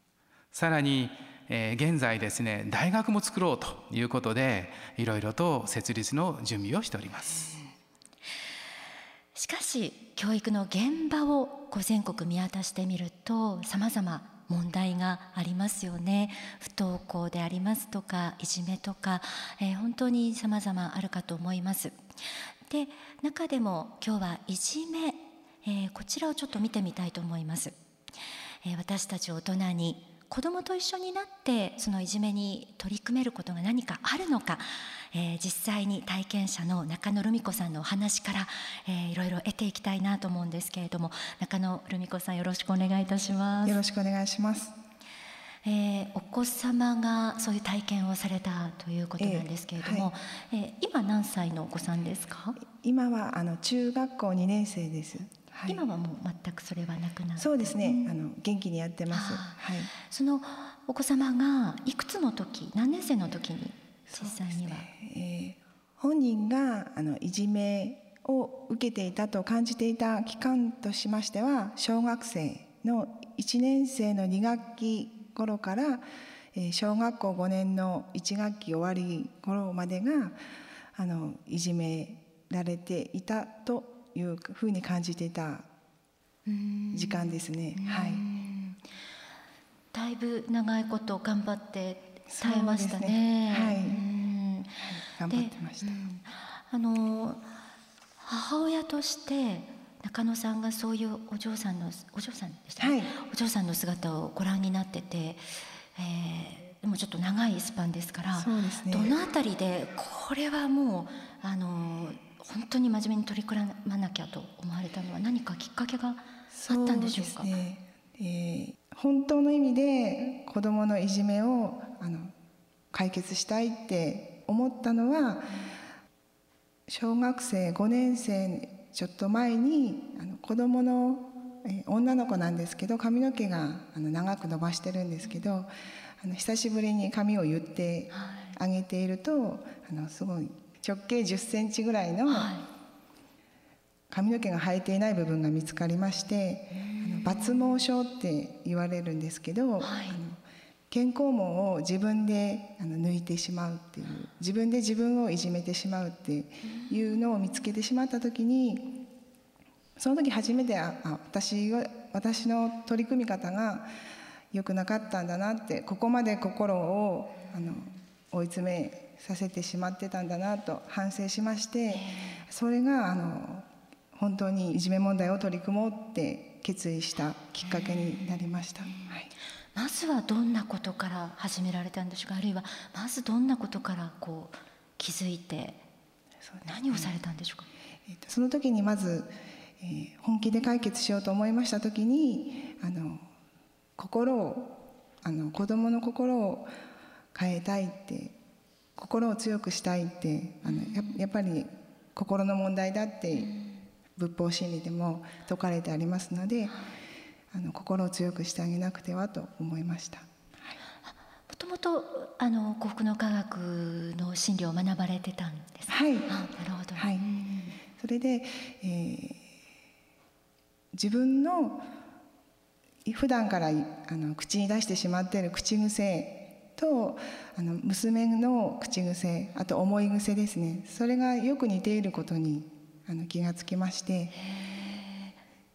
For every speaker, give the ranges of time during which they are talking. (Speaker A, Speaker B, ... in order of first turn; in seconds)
Speaker A: 0.5-7.6
Speaker B: 9.3-22.0, 22.7-27.8, 28.6-43.8, 45.6-52.6, 55.7-58.1, 59.1-64.9, 86.5-88.8, 89.9-94.8, 95.3-97.5, 98.2-105.5, 106.0-117.5, 138.2-138.5, 142.3-142.7, 146.8-147.4, 149.8-150.2, 171.9-172.4, 179.8-185.8, 186.6-187.7, 211.5-217.8, 234.4-235.4
Speaker C: 43.6-44.8, 49.2-50.1, 52.6-55.8, 57.4-59.9, 64.1-80.4, 81.0-85.7, 86.9-88.2, 92.3-94.0, 94.8-96.1, 102.8-103.1, 108.4-109.2, 116.5-122.3, 122.9-125.7, 126.9-135.7, 136.2-142.6, 144.1-159.1, 160.0-163.9, 164.5-179.3, 186.5-187.1, 188.1-193.2, 194.0-196.7, 197.3-198.4, 199.0-203.5, 204.2-206.8, 207.5-210.8, 215.9-216.3, 217.0-217.2, 218.0-219.4, 220.9-221.9, 223.1-234.3